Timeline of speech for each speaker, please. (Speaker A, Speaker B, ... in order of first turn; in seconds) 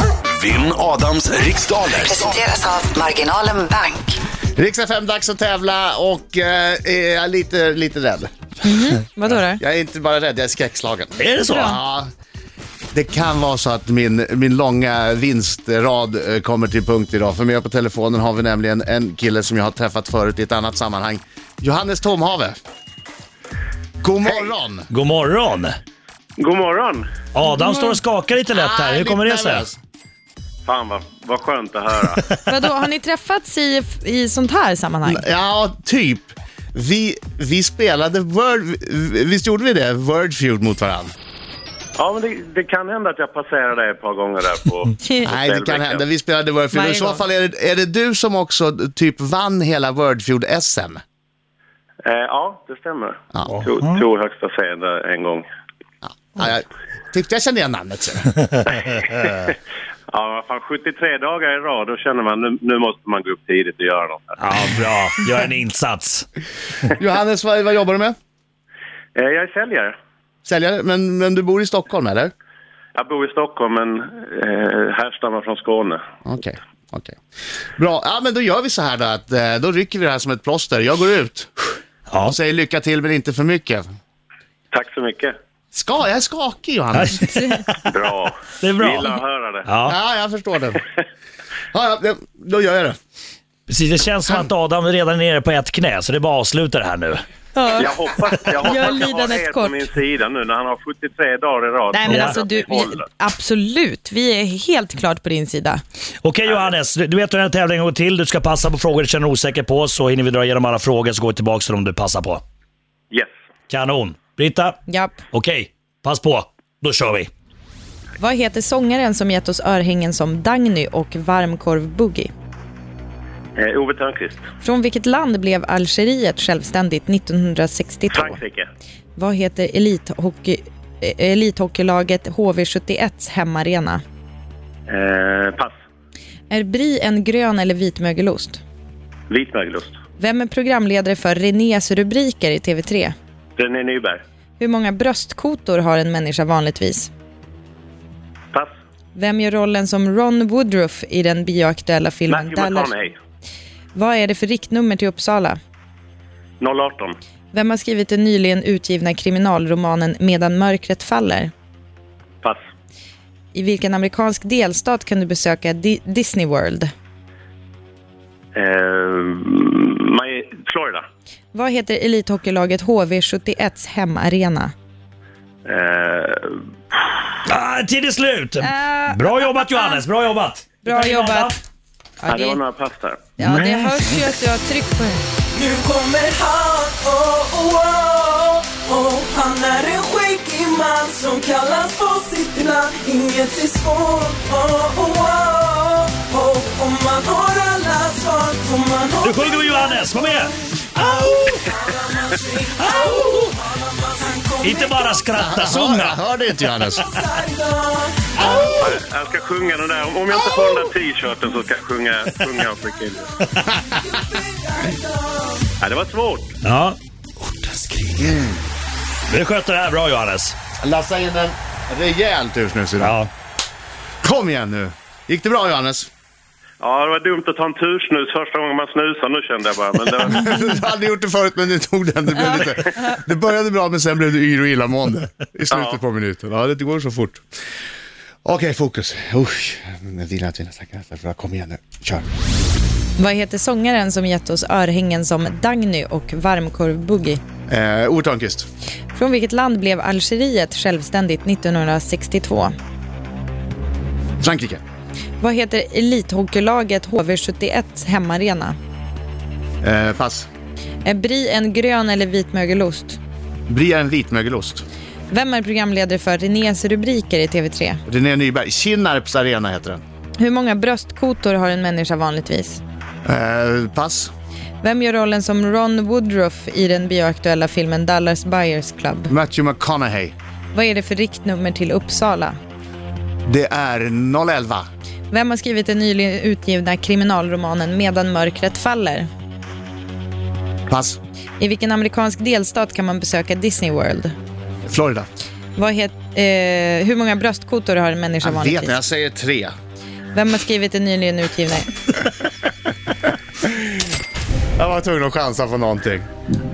Speaker A: 0.3-2.5
Speaker B: 2.0-4.2
Speaker C: 4.5-8.3, 9.3-12.1, 12.9-22.6, 24.0-24.9, 28.5-29.8, 35.0-41.1, 45.3-51.0, 53.3-53.6, 56.0-58.3, 67.0-68.2, 70.5-72.3, 76.2-77.2, 77.8-81.5, 82.3-83.8, 85.7-87.2, 89.9-90.8, 91.7-93.0, 205.4-207.0, 210.5-210.9, 218.2-218.6, 220.8-223.2, 224.2-226.1, 230.2-237.4, 238.4-242.2, 247.7-248.7, 254.4-254.8, 259.8-260.5, 263.7-264.8, 268.1-270.0, 273.2-274.3, 279.3-280.3, 283.5-284.9, 290.9-291.2, 294.9-295.3, 298.4-299.8, 304.8-306.3
Speaker D: 8.6-9.6, 11.5-11.8, 27.5-28.0, 32.5-35.2, 46.7-47.2, 87.2-87.7, 97.5-97.9, 98.6-99.8, 101.9-105.8, 114.9-115.2, 118.2-122.3, 124.6-128.4, 129.2-134.0, 136.5-138.6, 140.2-143.1, 144.6-147.1, 149.2-152.9, 153.9-155.6, 157.5-161.5, 163.5-166.9, 171.5-174.7, 178.6-180.1, 180.8-181.6, 182.2-182.6, 183.4-185.2, 243.2-247.4, 249.1-252.7, 255.4-258.8, 261.0-263.2, 265.3-268.0, 270.4-272.8, 274.8-279.3, 280.7-282.6, 285.3-289.3, 291.6-294.3, 295.8-299.0, 300.3-301.9
Speaker E: 11.2-11.8, 24.9-25.8, 27.3-29.7, 53.5-54.0, 64.4-66.3, 82.1-82.4, 86.9-87.9, 88.6-89.1, 89.7-90.0, 93.7-97.2, 102.1-102.4, 106.2-112.4, 113.7-114.8, 115.3-117.3, 177.5-181.6, 183.4-183.9, 199.2-201.7, 202.8-203.5, 204.6-206.2, 206.7-207.0, 213.4-213.7, 216.6-218.3, 219.3-220.6, 223.0-223.3
Speaker F: 26.4-27.1, 30.7-32.2, 42.0-46.0, 52.0-55.4, 59.3-59.5, 60.1-64.4, 69.2-69.9, 73.0-76.0, 84.7-85.3, 87.9-89.7, 97.8-103.0, 123.6-124.4, 128.1-128.7, 134.9-135.7, 139.3-140.0, 143.6-144.2, 152.3-153.2, 156.6-157.2, 168.6-171.0, 175.7-176.6, 182.3-183.2, 208.8-213.3, 215.8-216.5, 226.8-230.5, 235.7-236.0
Speaker G: 185.6-200.3, 201.0-205.2, 207.1-208.8, 213.7-215.7